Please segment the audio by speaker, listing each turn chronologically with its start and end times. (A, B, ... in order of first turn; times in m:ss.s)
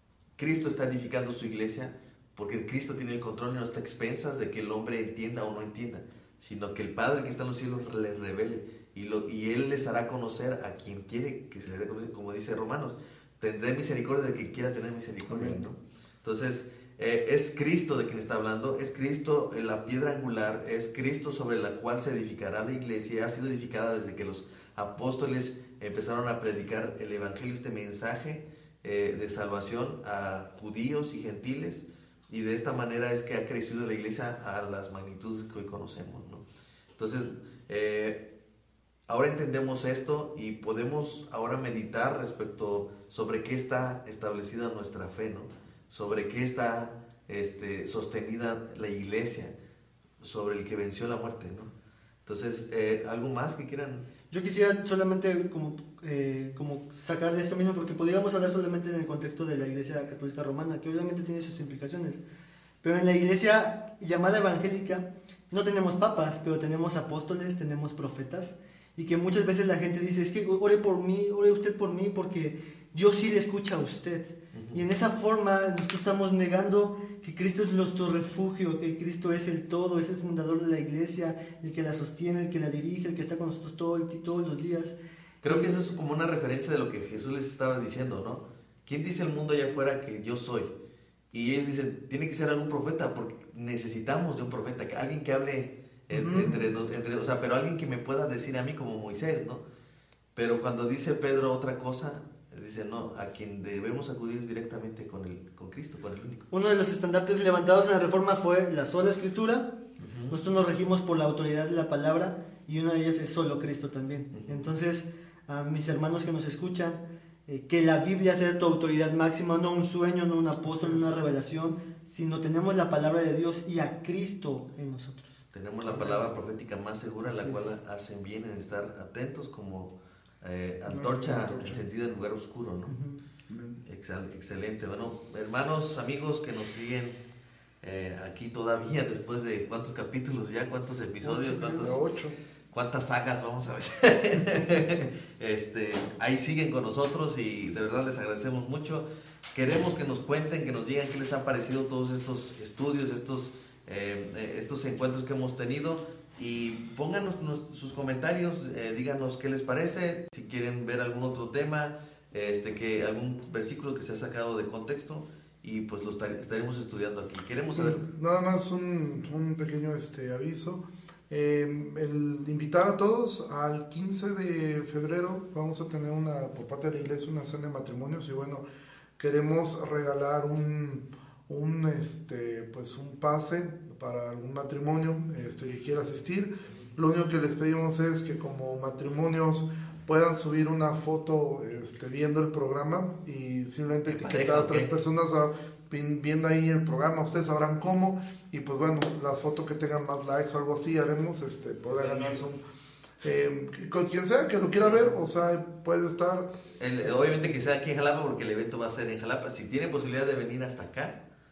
0:00.4-0:36.4 A
0:15.3-0:15.6 B
0:37.0-0:38.2 A
0:39.1-0:49.5 A
0:50.2-0:51.7 A
0:52.2-0:54.1 A
0:54.3-1:02.2 C
1:02.8-1:25.0 C
1:14.5-1:14.8 A
1:25.4-1:30.7 A
1:25.5-1:25.8 C
1:31.3-1:39.6 A
1:36.1-1:36.6 C
1:40.3-1:46.4 A
1:46.5-1:49.7 C
1:50.0-1:50.4 A
1:50.3-2:05.3 C
1:54.3-1:54.7 A
2:00.7-2:01.2 B
2:05.5-2:12.9 A
2:05.8-2:06.3 B
2:07.2-2:07.7 C
2:10.9-2:11.8 B
2:12.9-2:13.2 C
2:13.5-2:13.8 B
2:13.8-2:17.2 A
2:17.8-2:22.0 A
2:21.2-2:22.4 B
2:22.7-2:48.0 A
2:47.8-2:58.6 B
2:59.2-3:22.6 B
3:14.1-3:14.9 A
3:23.2-3:26.5 B
3:24.8-3:25.1 A
3:26.8-3:31.2 A